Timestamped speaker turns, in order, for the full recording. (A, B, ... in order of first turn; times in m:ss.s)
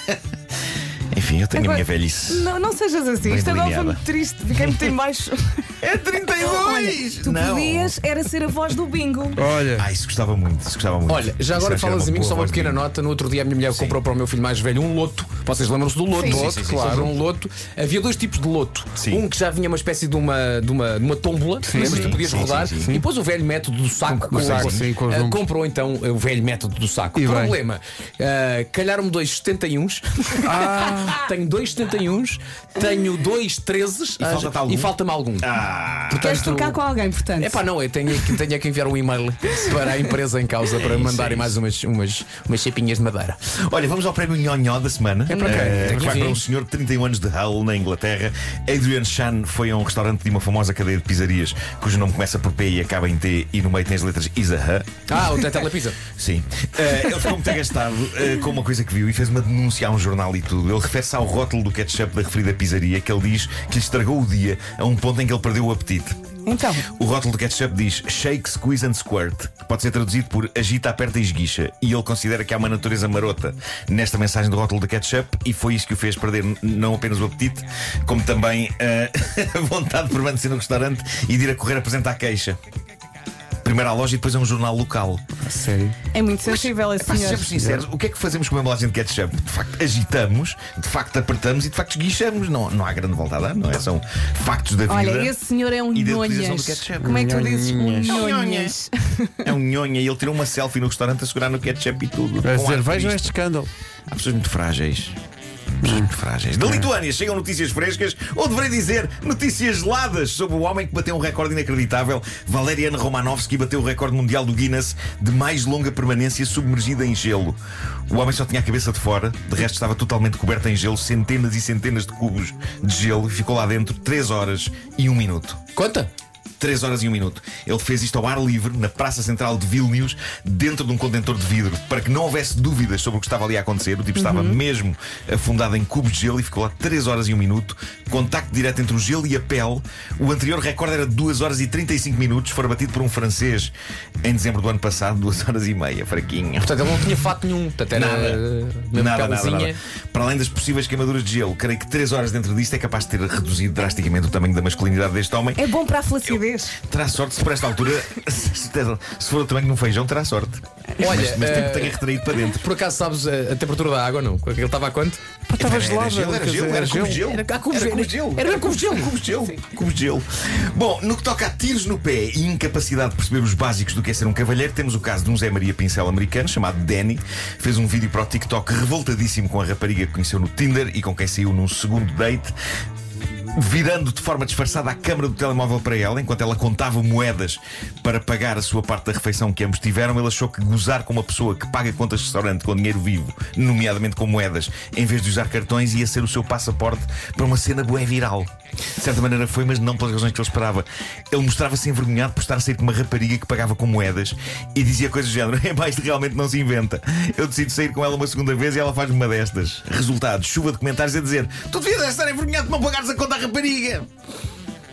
0:01.1-0:02.5 A
0:01.6-0:05.7 B
0:03.2-0:04.0 A
0:04.6-0:04.9 A
0:05.8-0:08.0 A
0:06.4-0:09.4 B
0:09.4-0:09.9 C
0:09.7-0:12.9 A
0:11.1-0:35.5 D
0:13.7-0:14.0 A
0:16.1-0:16.5 B
0:16.2-0:17.2 C
0:16.3-0:16.9 A
0:19.0-0:19.2 A
0:21.6-0:22.1 C
0:21.8-0:22.2 B
0:21.8-0:22.9 A
0:24.1-0:24.9 A
0:24.3-0:25.5 C
0:27.2-0:27.6 C
0:30.4-0:31.3 C
0:34.2-0:36.5 A
0:36.1-0:37.6 B
0:36.1-0:36.8 D
0:37.4-0:43.4 D
0:40.7-0:41.6 A
0:43.5-0:54.9 A
0:45.3-0:46.1 B
0:45.3-0:46.0 C
0:45.5-0:46.4 D
0:55.1-0:56.0 D
0:56.1-1:06.2 A
1:06.5-1:06.9 B
1:06.9-1:22.6 A
1:23.6-1:25.2 A
1:25.4-1:26.0 C
1:26.1-1:27.6 B
1:26.4-1:35.4 A
1:27.6-1:27.8 C
1:34.9-1:39.5 B
1:35.9-1:37.3 A
1:37.0-1:38.2 C
1:38.0-1:38.8 A
1:39.4-1:43.3 A
1:42.4-1:43.7 C
1:44.1-1:45.2 A
1:45.8-1:46.9 C
1:45.8-1:57.6 A
1:58.1-2:05.6 A
2:05.8-2:06.1 D
2:06.6-2:26.9 A
2:14.2-2:14.6 B
2:26.6-2:29.8 D
2:27.9-2:28.4 A
2:28.9-2:35.7 A
2:35.6-2:36.8 B
2:36.3-2:42.6 A
2:41.0-2:45.2 D
2:45.5-2:47.3 C
2:45.6-3:02.5 A
2:47.2-2:49.3 D
3:03.5-3:34.1 A